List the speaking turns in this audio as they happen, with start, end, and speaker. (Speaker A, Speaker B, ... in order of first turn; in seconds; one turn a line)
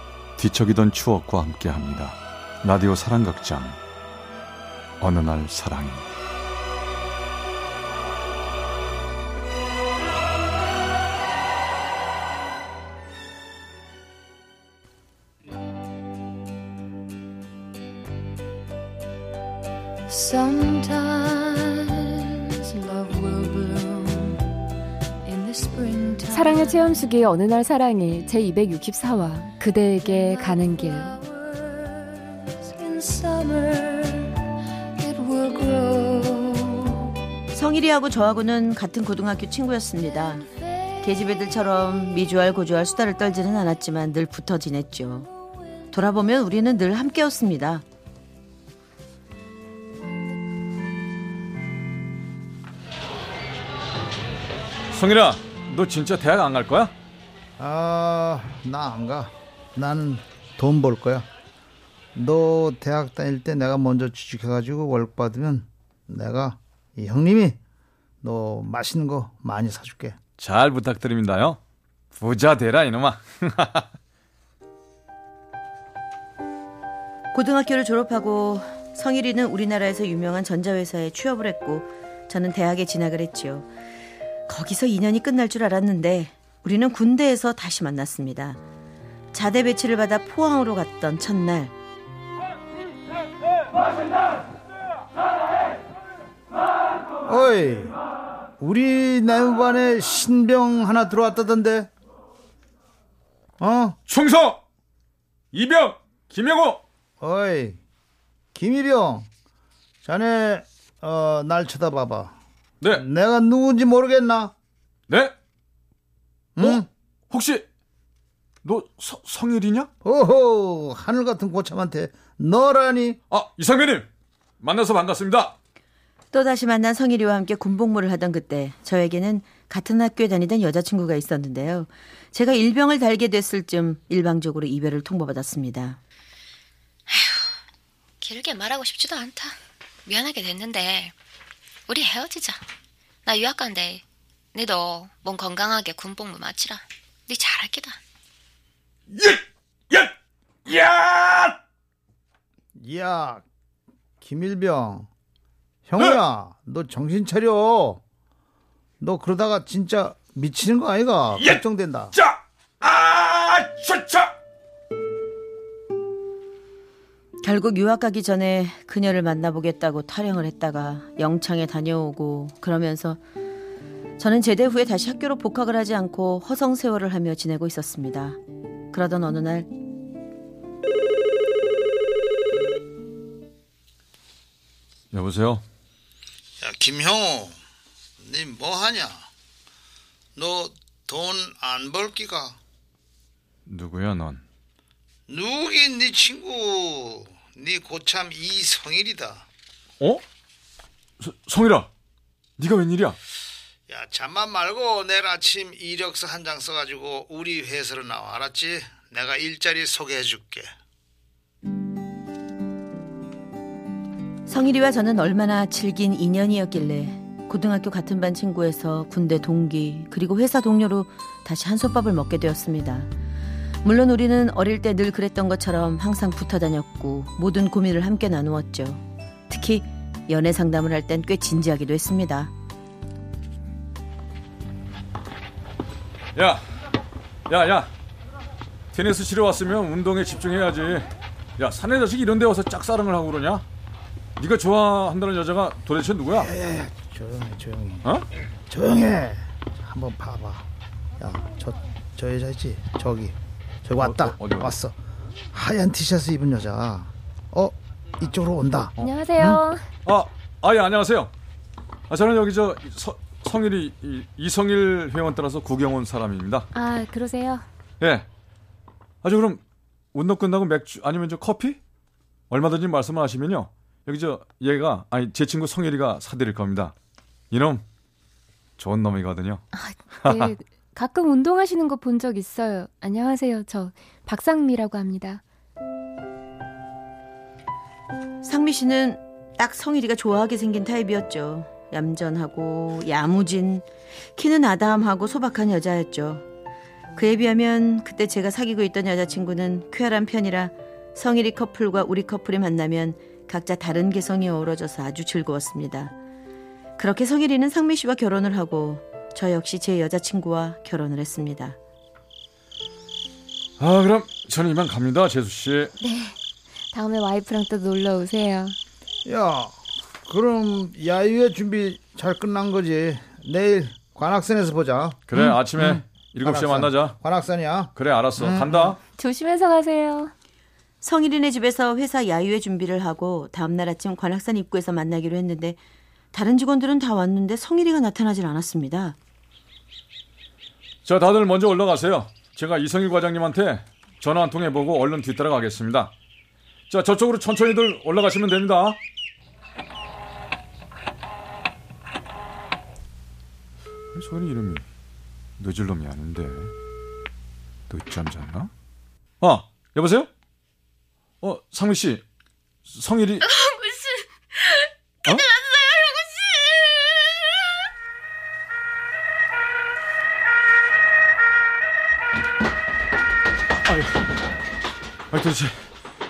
Speaker A: 0.4-3.8
Speaker A: 5.0-6.1
Speaker B: 20.1-24.5
Speaker B: 25.2-26.9
Speaker C: 26.3-31.2
Speaker B: 30.6-37.4
Speaker D: 37.5-40.5
Speaker D: 41.0-45.3
Speaker D: 45.9-47.8
Speaker A: 54.9-56.9
Speaker E: 57.6-61.3
Speaker E: 62.1-67.6
Speaker E: 68.2-70.2
Speaker A: 70.4-71.6
Speaker A: 72.1-73.9
Speaker D: 77.3-83.7
Speaker D: 84.5-88.6
Speaker D: 89.3-91.7
Speaker E: 97.3-98.0
Speaker E: 98.6-101.9
Speaker E: 103.6-104.0
Speaker A: 104.1-104.6
Speaker A: 105.5-106.8
Speaker E: 107.2-107.8
Speaker E: 108.5-109.3
Speaker E: 110.0-112.3
Speaker E: 112.9-114.5
Speaker A: 115.1-115.3
Speaker E: 116.6-116.9
Speaker A: 116.6-117.7
Speaker A: 118.6-119.9
Speaker E: 120.0-123.2
Speaker A: 123.3-124.1
Speaker A: 124.6-125.5
Speaker D: 126.3-136.0
Speaker B: 137.1-137.5
Speaker B: 138.2-141.1
Speaker B: 141.9-142.6
Speaker B: 143.2-144.0
Speaker B: 144.5-148.0
Speaker A: 149.1-150.1
Speaker A: 150.7-151.6
Speaker E: 152.8-153.4
Speaker E: 154.2-155.1
Speaker E: 155.8-158.0
Speaker E: 159.0-162.2
Speaker A: 162.1-164.3
Speaker D: 167.4-173.2
Speaker D: 174.2-178.4
Speaker D: 178.9-179.7
Speaker A: 185.1-185.6
Speaker E: 186.6-187.6
Speaker E: 188.2-189.3
Speaker E: 190.3-192.6
Speaker A: 193.7-194.4
Speaker E: 195.3-199.4
Speaker A: 201.2-201.9
Speaker A: 202.6-203.2
Speaker E: 203.9-210.7
Speaker D: 214.5-223.1
Speaker D: 223.8-232.5
Speaker A: 236.3-236.6
Speaker A: 237.5-237.9
Speaker A: 238.9-243.7
Speaker A: 244.4-246.5
Speaker E: 246.3-248.1
Speaker E: 248.7-250.7
Speaker E: 251.2-254.9
Speaker A: 253.9-254.7
Speaker E: 255.5-259.0
Speaker C: 259.0-259.9
Speaker A: 260.1-261.3
Speaker A: 262.1-266.7
Speaker C: 266.7-267.6
Speaker A: 268.0-268.3
Speaker A: 269.2-269.6
Speaker A: 270.1-271.8
Speaker A: 272.5-276.9
Speaker A: 277.5-277.8
Speaker A: 278.8-279.6
Speaker C: 279.7-285.4
Speaker A: 280.2-280.5
Speaker D: 288.4-296.4
Speaker D: 297.1-306.1
Speaker D: 307.0-311.8
Speaker A: 313.8-315.9
Speaker C: 316.0-316.4
Speaker C: 316.9-318.8
Speaker E: 319.2-328.9
Speaker A: 325.3-327.2
Speaker A: 327.9-329.0
Speaker C: 329.1-330.3
Speaker D: 331.0-335.8
Speaker D: 336.3-339.2
Speaker A: 341.0-346.1
Speaker A: 346.9-349.0
Speaker A: 354.1-354.9
Speaker A: 355.6-356.7
Speaker A: 357.9-358.7
Speaker A: 359.4-360.3
Speaker A: 361.4-362.2
Speaker A: 362.9-363.5
Speaker B: 363.6-367.6
Speaker C: 363.9-364.1
Speaker A: 373.8-374.2
Speaker A: 375.3-375.9